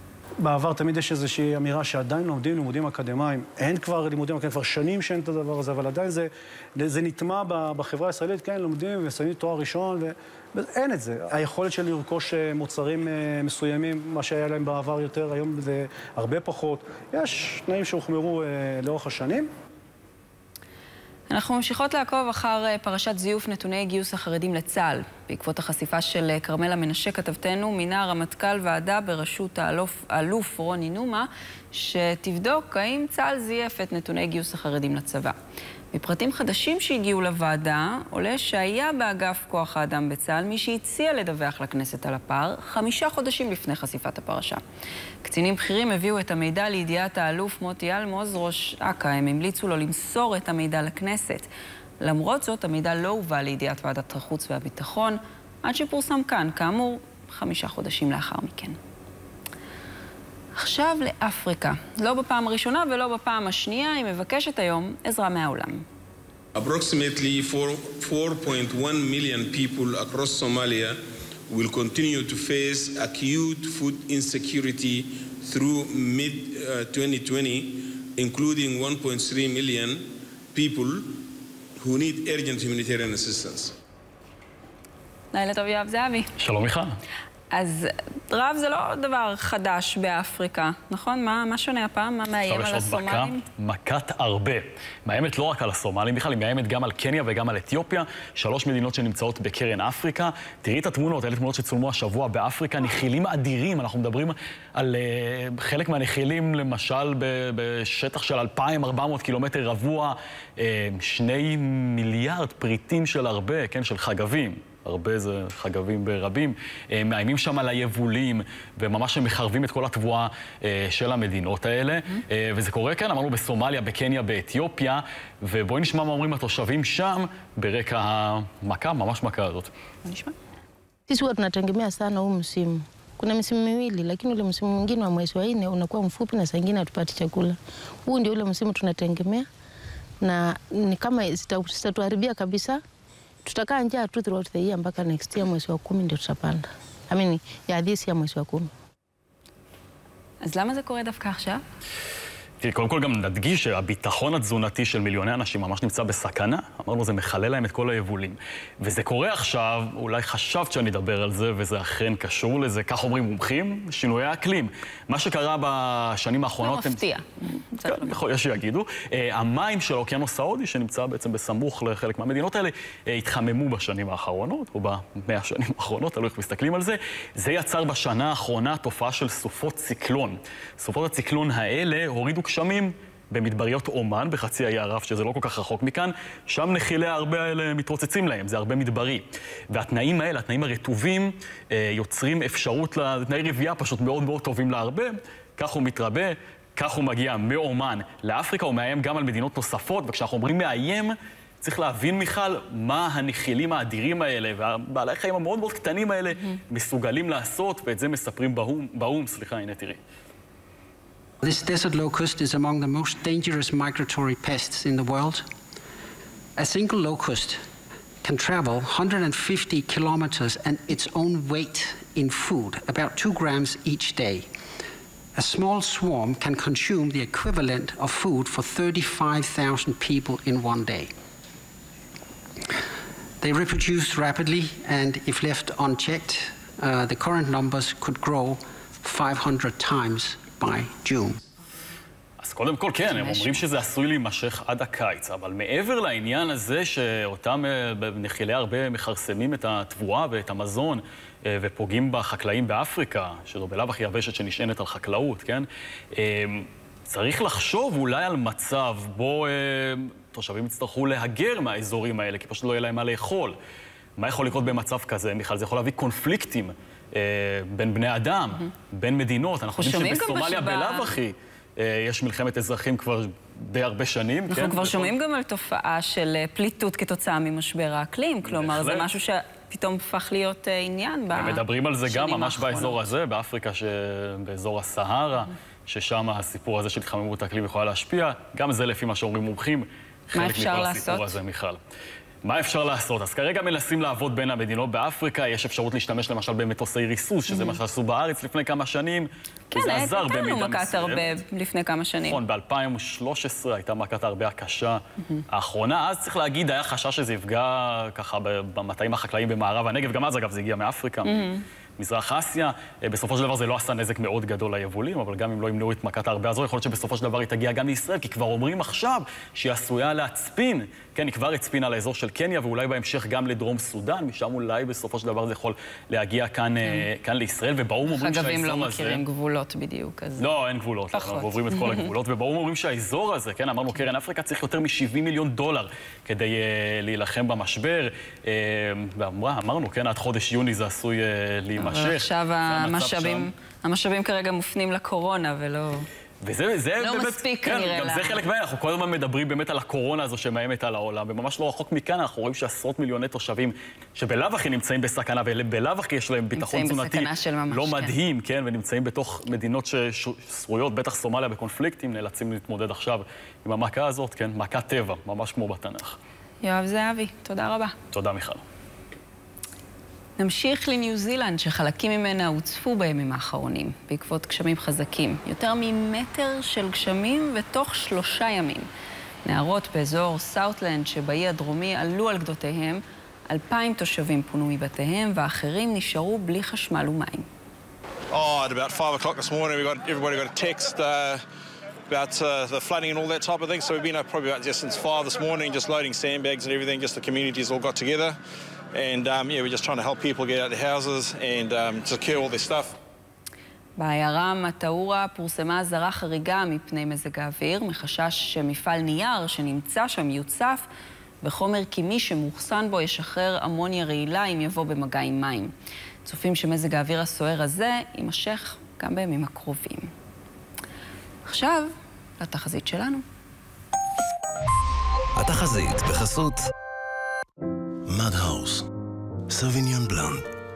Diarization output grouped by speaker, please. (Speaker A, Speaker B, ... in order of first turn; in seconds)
Speaker A: 0.4-19.5
Speaker B: 21.3-35.4, 35.9-44.6, 45.2-51.5, 52.0-58.8, 60.6-65.8, 85.3-86.3, 87.5-93.4, 130.1-130.3, 150.4-151.6, 166.6-168.2, 243.1-243.6, 269.8-271.1, 274.5-283.0, 290.3-291.4, 297.5-297.8, 299.7-302.4, 311.2-311.6, 328.1-330.5, 331.1-332.1, 341.8-346.1, 347.0-348.4, 356.6-358.2, 366.6-367.9, 370.4-378.9, 379.4-387.5, 404.0-410.9, 411.4-415.7, 416.2-420.1, 421.5-423.2
Speaker C: 66.6-81.3, 81.8-83.8
Speaker D: 86.4-86.9, 92.5-129.7, 152.6-167.0, 167.8-210.0, 242.4-263.6, 264.2-275.1, 278.5-279.1, 281.3-291.8, 292.4-301.3, 302.3-311.5, 312.0-329.2, 330.4-343.5, 346.4-366.2, 368.1-368.6
Speaker E: 131.1-139.5, 140.2-142.8, 143.4-148.7
Speaker F: 211.4-215.5, 216.6-217.6, 218.2-224.5, 225.3-231.1, 233.4-241.4
Speaker G: 388.3-391.4, 392.1-398.4, 398.9-402.9
Speaker H: 425.4-426.6, 428.1-428.9, 429.5-430.5